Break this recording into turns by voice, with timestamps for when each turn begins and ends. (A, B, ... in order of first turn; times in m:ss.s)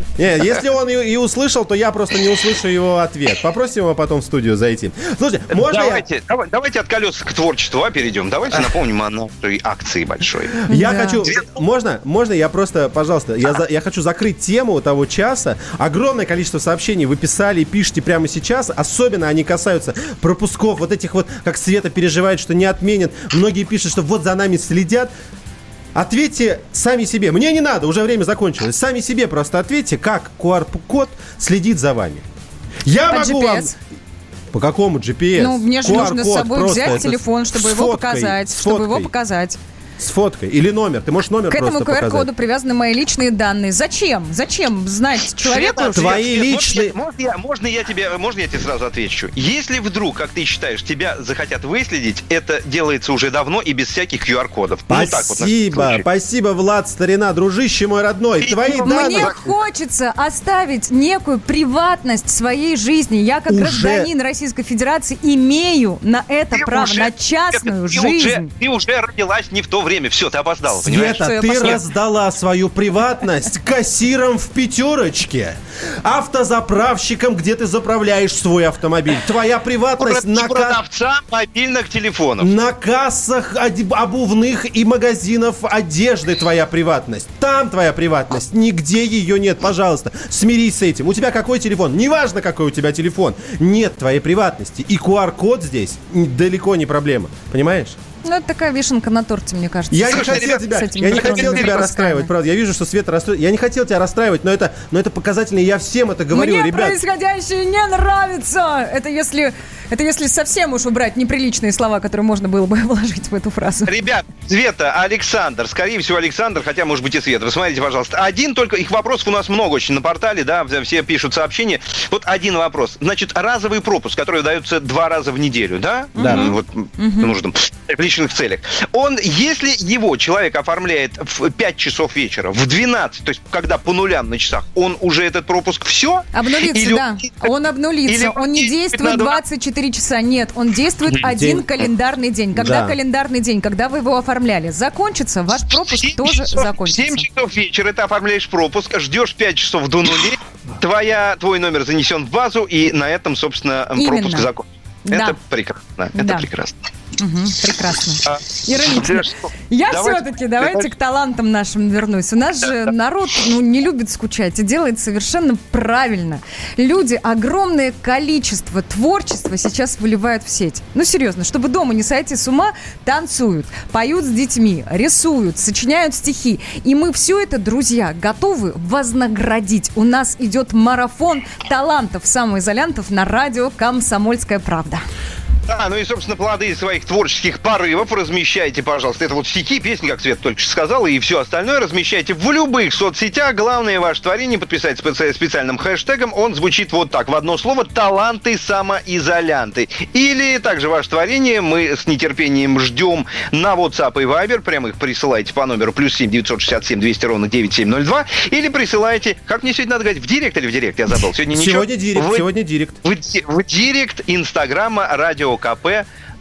0:00.2-0:06.0 A
0:05.5-0:10.6 B
0:10.7-0:25.1 A
0:10.7-0:11.2 C
0:25.9-0:32.2 A
0:32.8-0:33.7 A
0:33.1-0:33.7 C
0:34.5-0:39.1 A
0:35.4-0:39.6 C
0:40.0-0:42.3 A
0:41.5-0:46.1 C
0:45.4-0:56.0 B
0:45.9-0:46.9 A
0:54.9-0:59.3 A
0:58.4-0:59.4 B
0:58.5-1:08.5 C
1:03.5-1:04.1 A
1:06.5-1:11.8 B
1:10.7-1:20.8 A
1:11.2-1:11.8 C
1:20.0-1:22.5 B
1:22.4-1:38.0 A
1:38.2-1:42.3 C
1:39.9-1:47.0 A
1:40.1-1:41.8 B
1:46.3-1:53.9 C
1:53.8-2:17.5 B
2:06.2-2:07.3 C
2:06.2-2:06.5 A
2:16.3-2:27.2 C
2:18.1-2:19.4 B
2:21.2-2:21.6 A
2:22.5-2:22.9 A
2:25.9-2:36.7 B
2:34.0-2:34.5 C
2:35.1-2:35.4 C
2:36.2-2:36.4 C
2:37.2-3:05.0 C
2:38.3-2:40.9 B
3:05.7-3:32.4 B
3:31.5-3:33.0 A
3:33.0-3:36.0 B